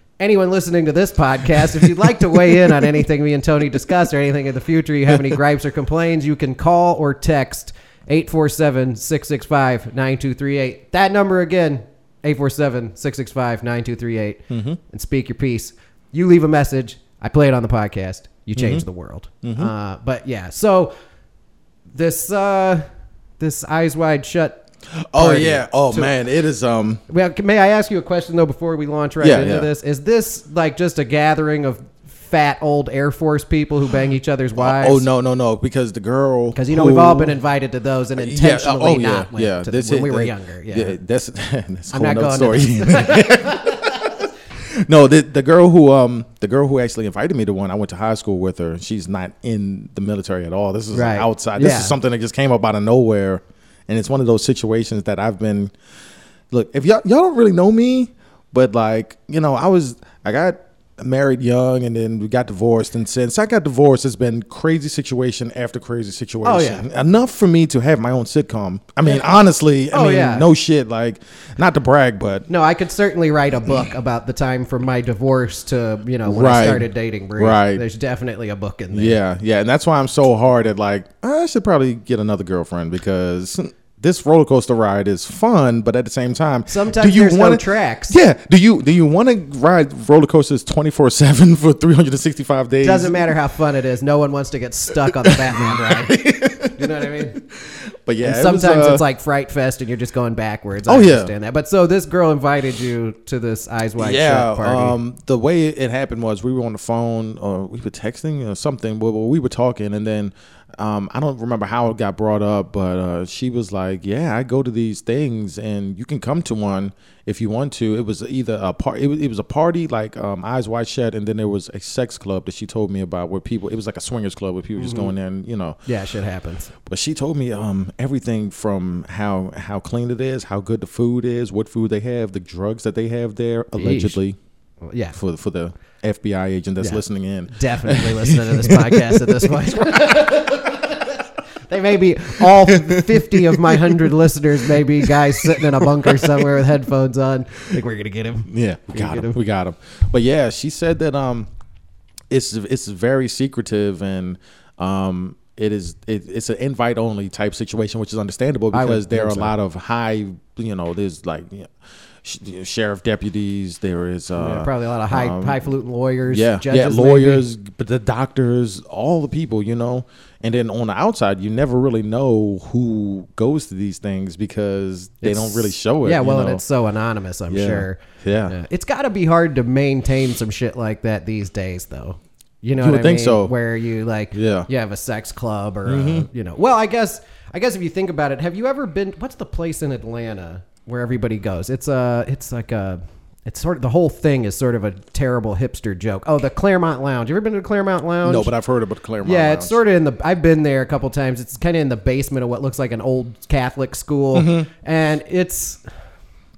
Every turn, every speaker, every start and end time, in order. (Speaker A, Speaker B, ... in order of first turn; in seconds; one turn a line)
Speaker A: 0.2-20.9
Speaker B: 14.5-14.8
Speaker B: 18.6-18.8
Speaker B: 19.4-19.7
Speaker A: 21.9-22.9
Speaker A: 23.4-24.6
Speaker B: 25.1-27.0
Speaker A: 25.1-26.1
Speaker A: 27.1-35.1
Speaker B: 29.2-29.7
Speaker B: 34.6-37.4
Speaker A: 36.5-41.0
Speaker B: 38.2-55.7
Speaker A: 41.9-43.9
Speaker A: 50.9-52.0
Speaker B: 56.5-72.5
Speaker A: 66.4-66.8
Speaker A: 69.9-70.5
Speaker A: 72.5-79.2
Speaker B: 76.2-77.8
Speaker B: 78.9-93.3
Speaker A: 86.7-88.2
Speaker A: 92.8-96.2
Speaker B: 95.0-99.0
Speaker A: 96.8-97.4
Speaker A: 98.2-105.0
Speaker B: 100.9-101.3
Speaker B: 104.0-125.8
Speaker A: 124.8-125.1
Speaker A: 125.9-126.7
Speaker B: 126.8-134.4
Speaker A: 133.8-134.2
Speaker A: 134.8-135.2
Speaker B: 135.1-140.8
Speaker A: 136.8-149.4
Speaker B: 142.4-144.1
Speaker B: 145.0-146.6
Speaker B: 148.5-151.5
Speaker B: 152.3-165.6
Speaker A: 158.7-159.5
Speaker A: 164.4-167.4
Speaker B: 166.3-176.6
Speaker A: 175.2-198.5
Speaker B: 177.5-178.5
Speaker B: 182.8-183.5
Speaker B: 184.3-184.7
Speaker B: 185.9-186.3
Speaker B: 198.2-199.8
Speaker A: 199.2-205.8
Speaker B: 204.3-204.7